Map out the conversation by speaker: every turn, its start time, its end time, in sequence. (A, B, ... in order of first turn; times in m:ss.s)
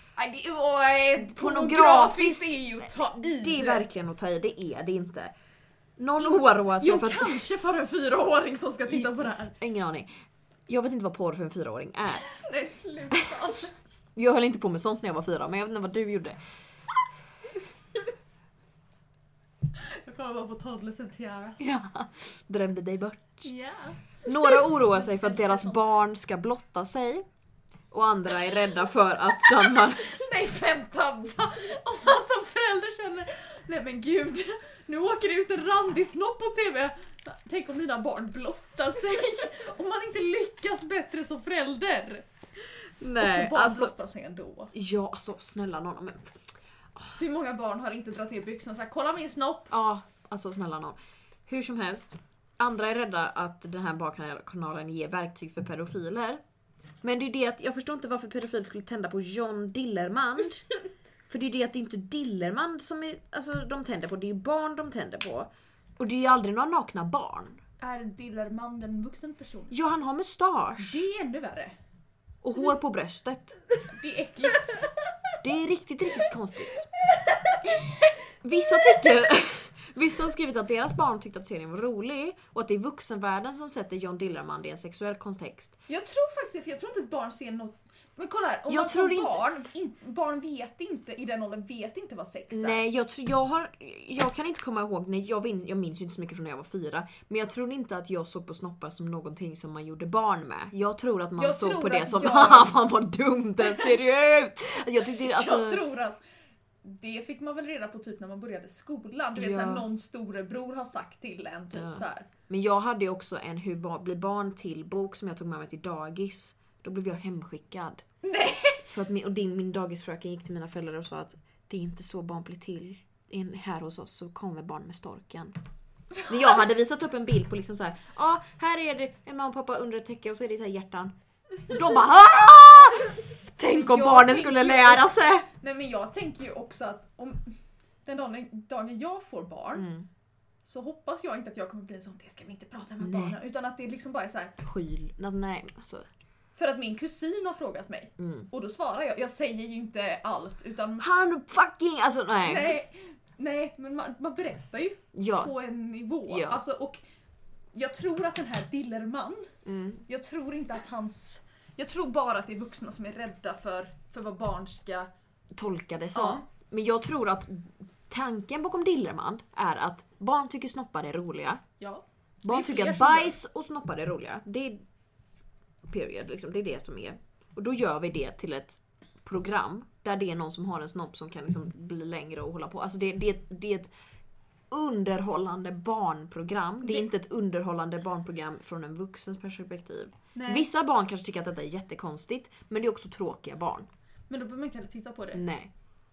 0:00.2-0:03.8 A
0:01.2-0:05.3 B
0:06.0-0:07.4 B
0:06.2-0:09.5 A
0:08.9-0:10.1 B
0:10.7-0:12.3 B
0:12.3-0:13.8 A
0:14.2-0:16.4 B
0:19.8-0:21.7 A
0:21.6-0:23.5 B
0:23.4-0:25.9 A
0:24.2-0:27.2 B
0:27.9-0:30.1 B
0:30.0-0:42.2 A
0:43.0-0:43.9 B
0:43.2-0:44.7 A
0:44.7-0:46.4 B
0:47.2-0:49.7 A
0:49.7-0:56.4 B
0:57.0-1:00.6 B
1:01.3-1:07.6 B
1:07.8-1:09.8 A
1:09.7-1:11.0 B
1:10.8-1:11.8 A
1:12.4-1:13.6 B
1:13.9-1:14.9 A
1:15.4-1:16.9 B
1:18.4-1:25.8 B
1:25.9-1:32.8 A
1:28.7-1:29.4 B
1:32.5-1:45.8 B
1:41.4-1:42.8 A
1:45.3-1:46.2 A
1:46.8-1:52.3 A
1:49.4-1:49.9 B
1:51.7-1:58.0 B
1:58.2-1:58.9 A
1:58.9-2:05.6 B
2:06.3-2:11.2 B
2:11.7-2:15.5 B
2:13.7-2:17.4 A
2:18.0-2:19.9 A
2:19.7-2:20.1 B
2:20.6-2:24.6 A
2:23.0-2:23.4 B
2:24.6-2:26.1 B
2:26.6-2:31.0 A
2:28.2-2:28.5 B
2:31.0-2:32.8 B
2:32.5-2:37.0 A
2:35.2-2:35.5 B
2:36.3-2:36.6 B
2:37.7-2:39.5 A
2:39.7-2:40.0 B
2:40.1-2:45.1 A
2:45.6-2:51.6 B
2:46.2-2:46.4 A
2:51.8-2:53.3 A
2:52.4-2:54.8 B
2:55.9-3:03.9 B
3:04.7-3:13.9 B
3:10.4-3:10.7 A
3:14.3-3:15.4 A
3:15.3-3:15.7 B